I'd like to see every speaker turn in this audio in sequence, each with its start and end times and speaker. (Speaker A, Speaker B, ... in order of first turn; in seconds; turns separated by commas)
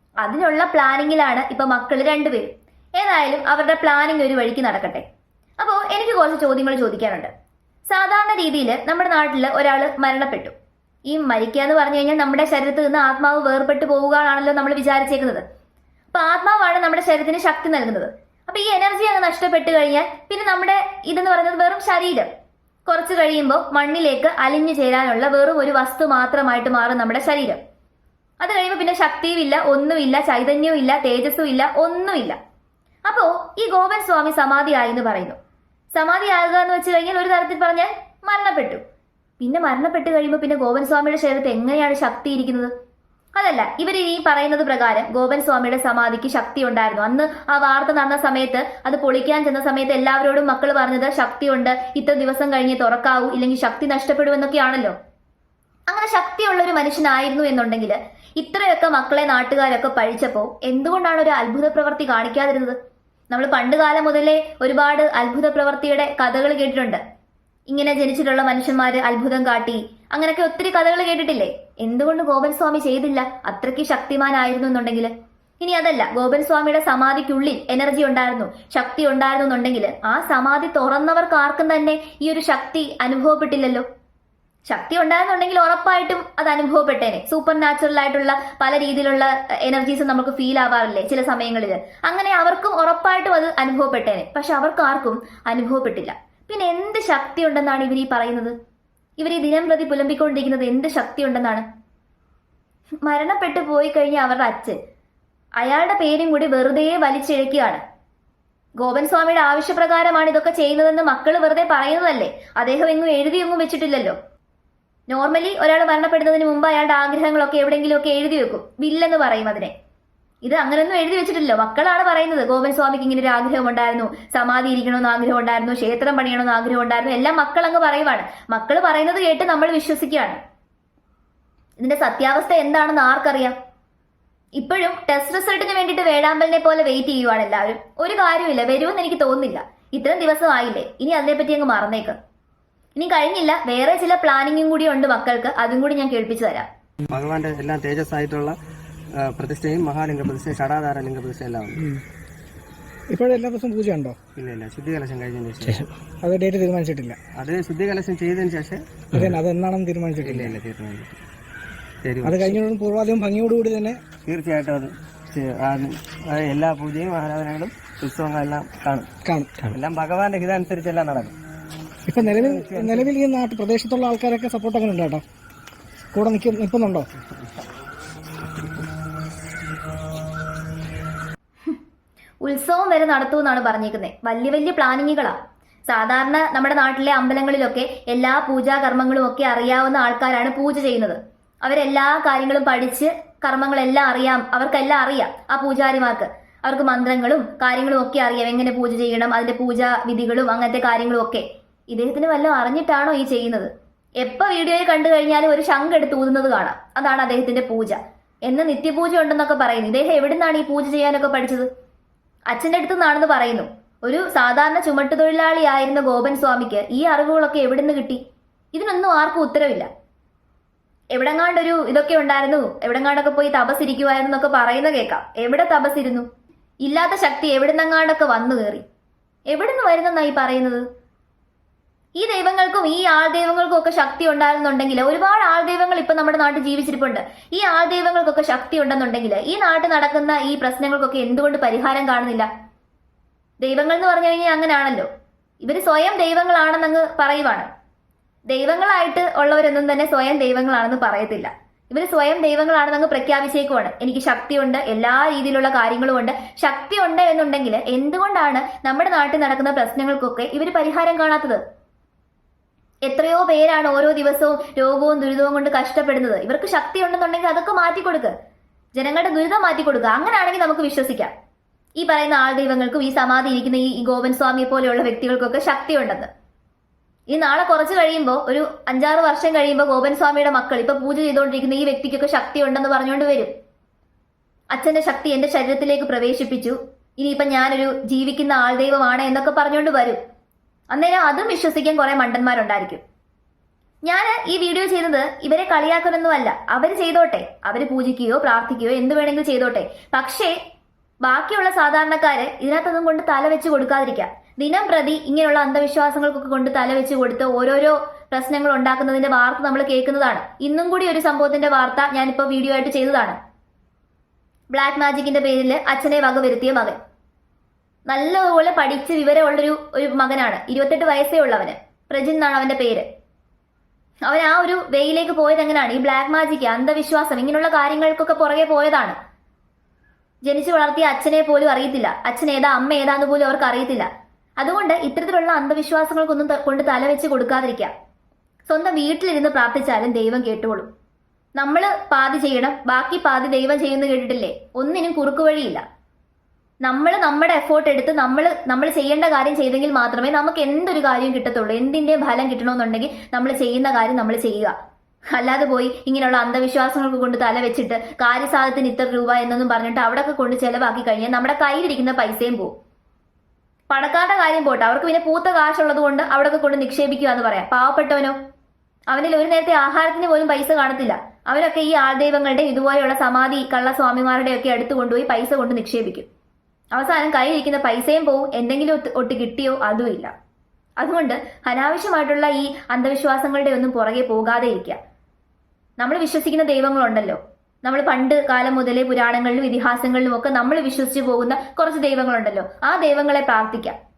Speaker A: 0.2-5.0, Speaker A: 5.6-7.3, Speaker A: 7.9-10.5, Speaker A: 11.1-15.4, Speaker A: 16.1-22.3, Speaker A: 22.9-27.6, Speaker A: 28.4-32.4, Speaker A: 33.0-35.4, Speaker A: 35.9-38.8, Speaker A: 39.4-42.7, Speaker A: 43.4-54.9, Speaker A: 55.9-62.8, Speaker A: 63.3-67.0, Speaker A: 67.7-83.8, Speaker A: 84.7-98.5, Speaker A: 99.2-101.6, Speaker A: 103.0-104.8, Speaker A: 105.6-107.8, Speaker A: 108.8-114.2, Speaker A: 115.1-119.7, Speaker A: 120.4-130.4, Speaker A: 131.8-133.5, Speaker A: 134.6-142.2, Speaker A: 143.0-146.7, Speaker B: 147.1-148.6, Speaker B: 149.2-151.8, Speaker C: 153.1-154.2, Speaker B: 154.3-155.8, Speaker C: 156.2-157.2, Speaker B: 157.4-159.3, Speaker C: 159.2-160.5, Speaker B: 160.2-161.2, Speaker B: 162.0-162.6, Speaker C: 162.2-164.0, Speaker B: 164.2-169.1, Speaker C: 169.2-169.7, Speaker B: 169.7-171.3, Speaker C: 172.1-175.2, Speaker B: 172.2-173.1, Speaker C: 176.1-177.1, Speaker A: 182.4-185.4, Speaker A: 185.9-203.7, Speaker A: 204.2-211.7, Speaker A: 212.5-218.2, Speaker A: 218.7-219.9, Speaker A: 221.1-226.2, Speaker A: 226.8-228.8, Speaker A: 229.5-230.8, Speaker A: 232.2-242.5, Speaker A: 243.6-245.1, Speaker A: 245.6-247.7, Speaker A: 248.5-261.6, Speaker A: 263.1-268.3, Speaker A: 268.9-271.3, Speaker A: 272.0-276.3, Speaker A: 277.3-283.5, Speaker A: 284.7-290.2, Speaker A: 290.9-293.0, Speaker A: 294.0-300.5, Speaker A: 301.2-313.4, Speaker A: 314.7-317.0, Speaker A: 318.1-323.1, Speaker A: 324.3-329.2, Speaker A: 330.4-334.1, Speaker A: 334.6-337.9, Speaker A: 338.7-340.9, Speaker A: 341.6-345.8, Speaker A: 346.8-354.7, Speaker A: 355.3-362.7, Speaker A: 363.9-368.3, Speaker A: 369.1-376.3, Speaker A: 376.9-380.3, Speaker A: 381.0-385.0, Speaker A: 386.0-393.9